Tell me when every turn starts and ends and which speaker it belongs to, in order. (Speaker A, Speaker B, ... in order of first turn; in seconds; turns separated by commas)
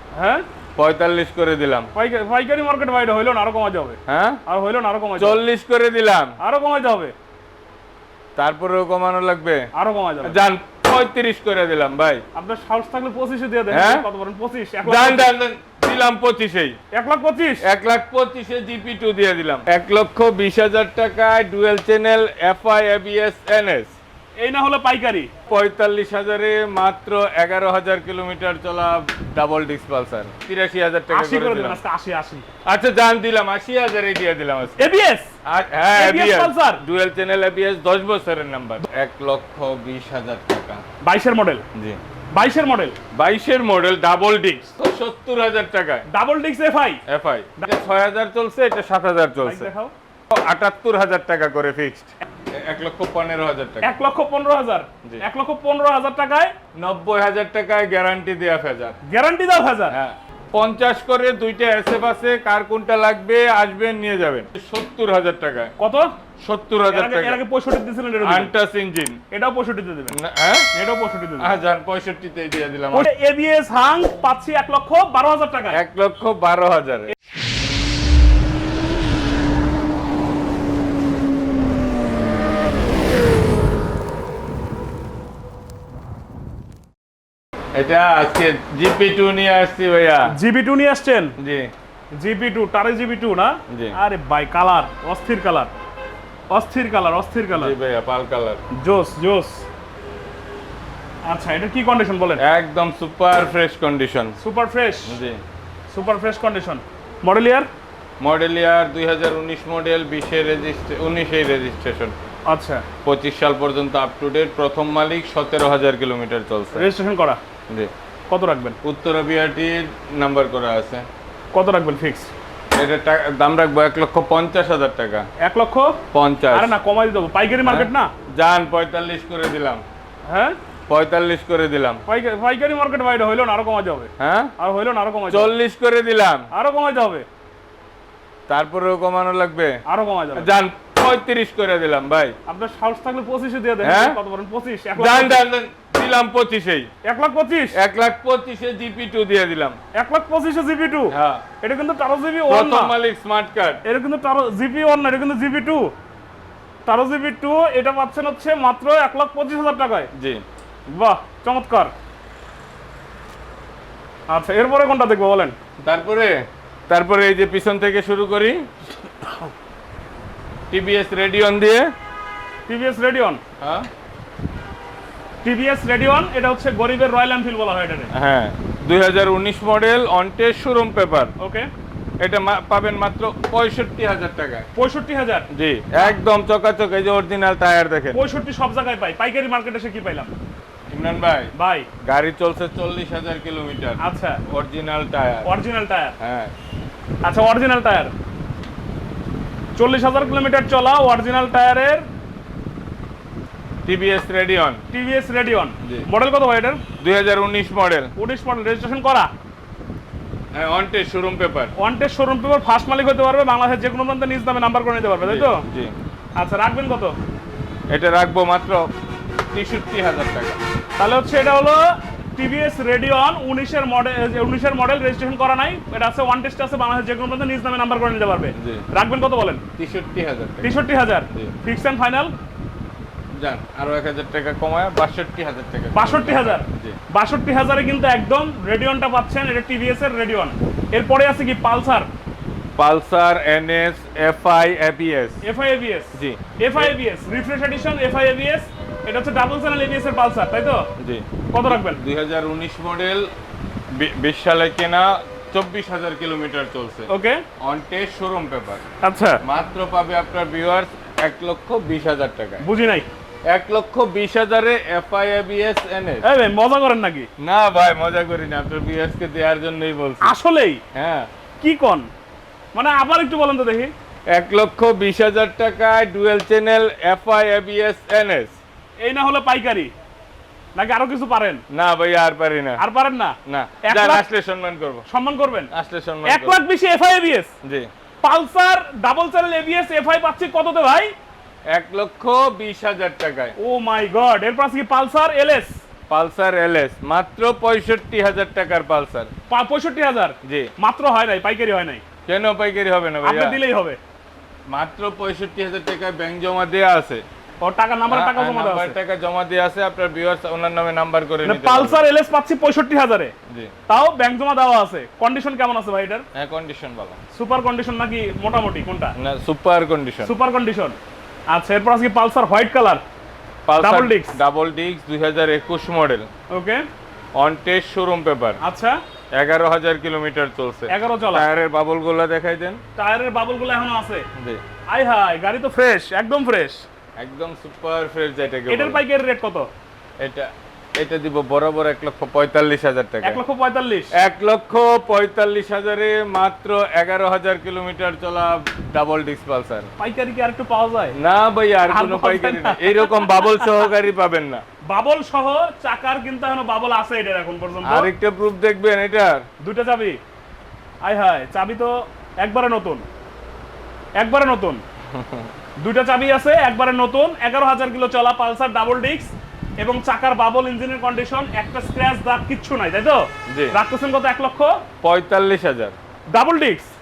Speaker A: 0.1-0.4, Speaker B: 0.8-1.9, Speaker A: 1.9-5.4, Speaker B: 4.1-4.4, Speaker B: 5.2-6.3, Speaker A: 6.4-7.1, Speaker B: 8.3-9.7, Speaker A: 9.7-10.4, Speaker B: 10.2-12.2, Speaker A: 12.3-15.3, Speaker B: 13.7-14.0, Speaker B: 14.8-16.8, Speaker A: 16.9-17.6, Speaker B: 17.6-23.9, Speaker A: 24.4-25.3, Speaker B: 25.5-31.8, Speaker A: 31.1-32.4, Speaker B: 32.6-34.9, Speaker A: 34.8-35.3, Speaker B: 35.4-40.8, Speaker A: 35.9-36.8, Speaker A: 41.0-41.6, Speaker A: 42.3-43.0, Speaker B: 43.1-46.0, Speaker A: 46.1-47.0, Speaker B: 47.1-49.7, Speaker A: 49.4-49.9, Speaker B: 50.3-53.9, Speaker A: 53.8-56.5, Speaker B: 56.8-59.0, Speaker A: 59.0-59.9, Speaker B: 59.9-65.7, Speaker A: 65.8-66.1, Speaker B: 66.4-67.4, Speaker A: 66.9-68.5, Speaker B: 68.2-69.2, Speaker A: 69.3-70.2, Speaker B: 70.1-70.7, Speaker A: 70.7-71.5, Speaker B: 71.4-73.1, Speaker A: 72.9-75.8, Speaker B: 75.7-77.1, Speaker B: 87.7-90.3, Speaker A: 90.3-91.3, Speaker B: 91.4-91.7, Speaker A: 92.2-95.7, Speaker B: 93.7-94.0, Speaker A: 96.5-97.7, Speaker B: 97.5-98.6, Speaker A: 98.8-99.6, Speaker A: 101.3-102.4, Speaker B: 102.4-104.3, Speaker A: 104.4-105.2, Speaker B: 105.1-105.4, Speaker A: 105.9-107.7, Speaker B: 108.2-112.1, Speaker A: 112.5-112.8, Speaker B: 113.0-116.9, Speaker A: 116.7-117.4, Speaker A: 118.3-118.8, Speaker B: 118.8-121.1, Speaker A: 121.5-122.3, Speaker B: 122.8-125.3, Speaker A: 125.4-128.1, Speaker B: 126.1-126.8, Speaker B: 127.6-129.8, Speaker A: 130.2-130.6, Speaker B: 130.9-132.0, Speaker A: 132.1-135.5, Speaker B: 134.2-134.5, Speaker B: 135.3-136.5, Speaker A: 136.5-137.2, Speaker B: 138.5-139.8, Speaker A: 139.9-140.5, Speaker B: 140.3-142.3, Speaker A: 142.5-145.4, Speaker B: 143.8-144.2, Speaker B: 144.9-146.9, Speaker A: 147.0-147.8, Speaker B: 147.7-149.8, Speaker A: 149.9-152.9, Speaker B: 151.1-151.4, Speaker B: 152.5-153.8, Speaker A: 153.8-155.9, Speaker A: 156.8-160.1, Speaker B: 160.2-160.4, Speaker A: 160.9-161.9, Speaker A: 164.3-165.6, Speaker B: 165.8-168.6, Speaker B: 170.7-171.9, Speaker A: 172.7-173.4, Speaker B: 173.6-173.9, Speaker A: 175.4-178.1, Speaker B: 178.1-181.3, Speaker A: 181.4-181.7, Speaker B: 182.2-184.7, Speaker A: 184.8-185.5, Speaker B: 185.5-188.2, Speaker A: 188.1-190.3, Speaker B: 190.9-191.5, Speaker A: 191.5-191.9, Speaker B: 192.0-195.5, Speaker A: 194.0-194.4, Speaker A: 195.4-196.2, Speaker B: 196.2-196.5, Speaker A: 197.2-198.1, Speaker A: 199.8-202.1, Speaker B: 203.8-204.8, Speaker A: 204.9-206.8, Speaker B: 207.0-208.1, Speaker A: 208.2-209.3, Speaker B: 210.5-211.7, Speaker A: 211.8-215.6, Speaker B: 215.2-215.9, Speaker A: 216.4-217.2, Speaker B: 217.9-218.9, Speaker B: 219.5-220.6, Speaker A: 221.0-229.6, Speaker B: 228.6-228.8, Speaker B: 229.8-230.8, Speaker A: 230.6-232.3, Speaker B: 233.4-237.0, Speaker A: 235.9-242.1, Speaker B: 242.8-245.4, Speaker A: 245.4-250.9, Speaker B: 246.1-246.8, Speaker B: 251.0-253.3, Speaker A: 251.5-252.0, Speaker B: 253.9-257.1, Speaker A: 257.1-257.4, Speaker B: 257.6-258.8, Speaker A: 259.0-259.4, Speaker B: 259.4-262.6, Speaker A: 262.6-263.1, Speaker B: 263.5-266.2, Speaker A: 266.2-267.3, Speaker B: 267.4-270.3, Speaker A: 270.2-270.8, Speaker B: 270.9-271.3, Speaker A: 271.6-272.1, Speaker A: 272.7-273.9, Speaker B: 274.3-278.6, Speaker A: 279.0-279.9, Speaker A: 280.8-281.6, Speaker B: 281.7-282.8, Speaker A: 282.8-284.2, Speaker B: 283.5-285.0, Speaker A: 285.1-285.7, Speaker B: 285.7-286.6, Speaker A: 286.2-287.5, Speaker B: 287.6-287.9, Speaker A: 288.2-291.1, Speaker B: 291.7-293.5, Speaker A: 293.6-295.8, Speaker B: 296.1-299.3, Speaker A: 299.5-302.0, Speaker B: 300.4-300.7, Speaker B: 302.3-303.6, Speaker A: 303.2-304.0, Speaker B: 304.7-307.2, Speaker A: 307.6-308.9, Speaker B: 308.1-312.0, Speaker A: 311.4-313.3, Speaker A: 313.9-316.2, Speaker B: 316.3-317.2, Speaker A: 317.3-319.1, Speaker B: 319.1-320.3, Speaker A: 320.2-321.0, Speaker A: 321.5-323.0, Speaker B: 323.7-326.3, Speaker A: 323.8-324.4, Speaker A: 326.5-326.8, Speaker B: 327.4-328.6, Speaker A: 328.6-329.0, Speaker B: 329.3-332.8, Speaker A: 330.9-331.5, Speaker A: 333.0-334.2, Speaker B: 334.4-334.6, Speaker A: 334.9-336.8, Speaker B: 337.2-339.0, Speaker A: 338.7-339.7, Speaker B: 340.2-343.4, Speaker A: 343.2-344.1, Speaker B: 344.1-349.9, Speaker A: 350.0-351.1, Speaker B: 351.1-354.6, Speaker A: 351.9-353.9, Speaker A: 354.9-358.1, Speaker B: 357.8-359.4, Speaker A: 359.6-360.2, Speaker A: 361.0-363.0, Speaker A: 364.2-364.8, Speaker B: 365.1-365.5, Speaker A: 365.8-374.8, Speaker B: 373.5-373.8, Speaker B: 375.0-375.9, Speaker A: 376.3-376.9